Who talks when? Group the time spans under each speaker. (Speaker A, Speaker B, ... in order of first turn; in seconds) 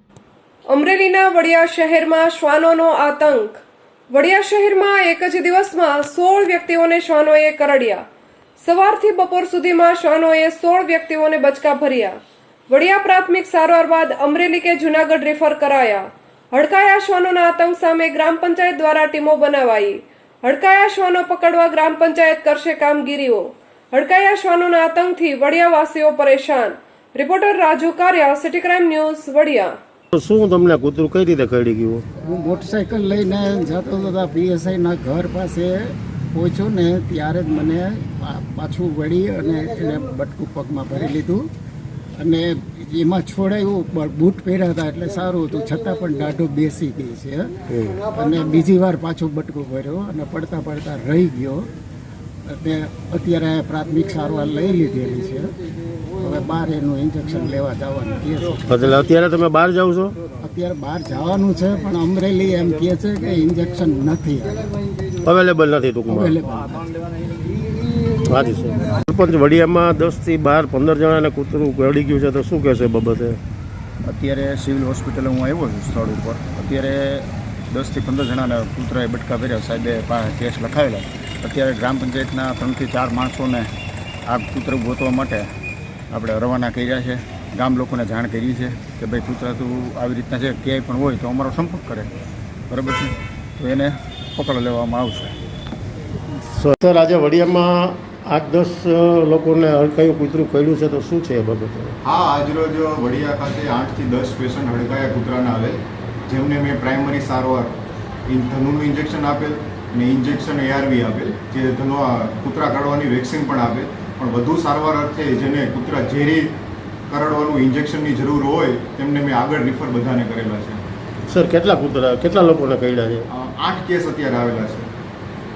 Speaker A: 0.7-8.0, 8.6-29.7
Speaker B: 30.1-32.0, 47.7-48.0, 58.7-60.2, 65.2-66.4, 68.2-73.4, 96.5-102.0, 121.3-123.3
Speaker C: 32.2-41.4, 42.2-51.7, 52.5-55.5, 56.2-58.8, 60.4-64.7, 66.1-66.9
Speaker D: 74.1-83.7, 84.3-85.5, 86.1-92.1, 92.7-95.3
Speaker E: 102.0-116.5, 117.1-120.8, 123.3-124.9